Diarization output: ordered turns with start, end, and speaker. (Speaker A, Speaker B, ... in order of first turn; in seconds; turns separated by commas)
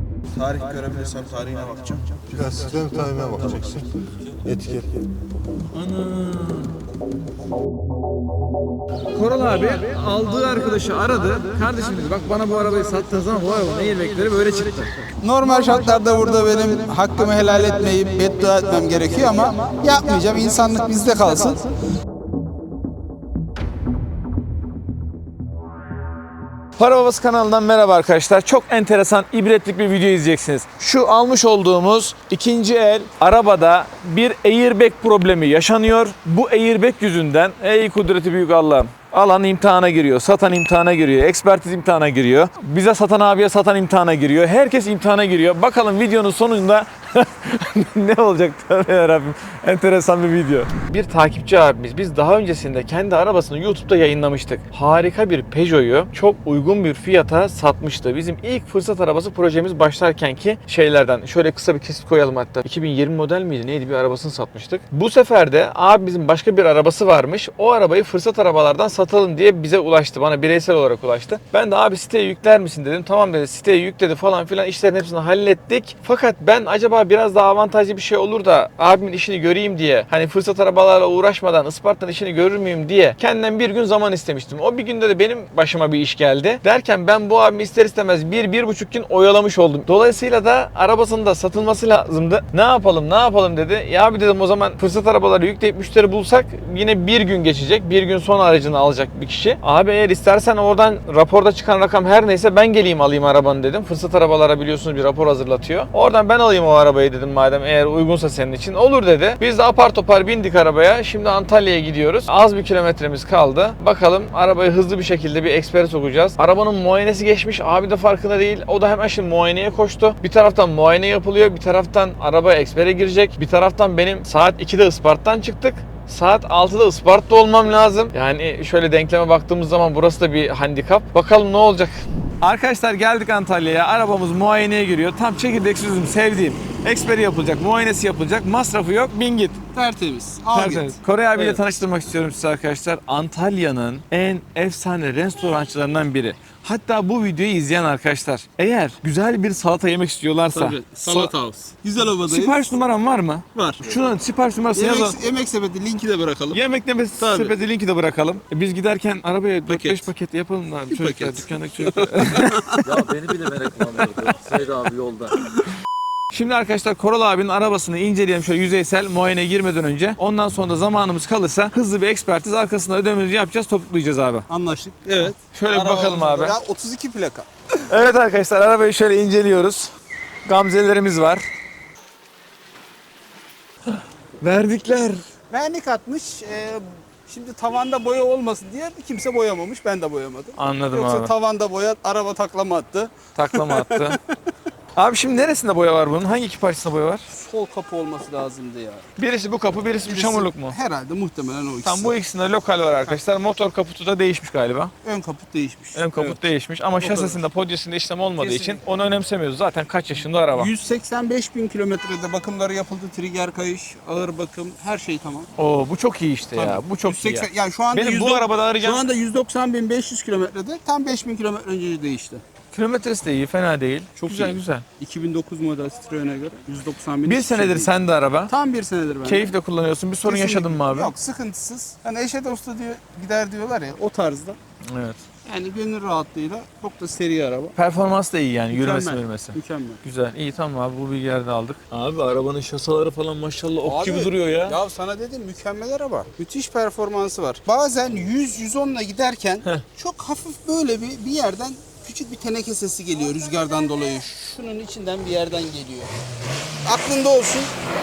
Speaker A: 0.3-3.9, Speaker B: 2.3-3.9, Speaker B: 4.4-5.1, Speaker C: 5.7-6.7, Speaker C: 9.1-15.8, Speaker D: 15.2-21.8, Speaker C: 26.8-139.6, Speaker D: 139.7-141.6, Speaker C: 140.5-151.3, Speaker D: 150.5-152.6, Speaker C: 152.0-155.2, Speaker D: 153.5-154.1, Speaker D: 154.7-156.6, Speaker C: 156.5-162.6, Speaker D: 157.2-157.5, Speaker D: 159.7-160.1, Speaker D: 160.9-162.9, Speaker E: 162.7-165.4, Speaker C: 166.3-174.5, Speaker D: 174.5-177.5, Speaker C: 175.5-176.5, Speaker C: 177.9-179.9, Speaker C: 180.4-181.4, Speaker C: 183.9-185.2, Speaker D: 185.5-194.2, Speaker C: 190.6-191.3, Speaker C: 193.3-194.2, Speaker C: 194.9-197.2, Speaker D: 197.3-199.1, Speaker C: 199.2-200.8, Speaker D: 200.0-202.1, Speaker C: 201.8-204.9, Speaker D: 205.0-206.4, Speaker C: 205.9-210.7, Speaker D: 207.0-207.4, Speaker D: 208.4-208.8, Speaker D: 210.5-215.5, Speaker C: 215.6-219.0, Speaker D: 216.5-222.4, Speaker C: 222.7-224.8, Speaker D: 224.2-227.9, Speaker C: 227.2-228.5, Speaker D: 228.5-229.5, Speaker C: 229.2-231.1, Speaker D: 230.2-234.6, Speaker C: 234.9-235.2, Speaker D: 235.4-237.8, Speaker C: 237.8-244.8, Speaker D: 238.7-240.0, Speaker D: 243.8-256.1, Speaker D: 256.8-257.7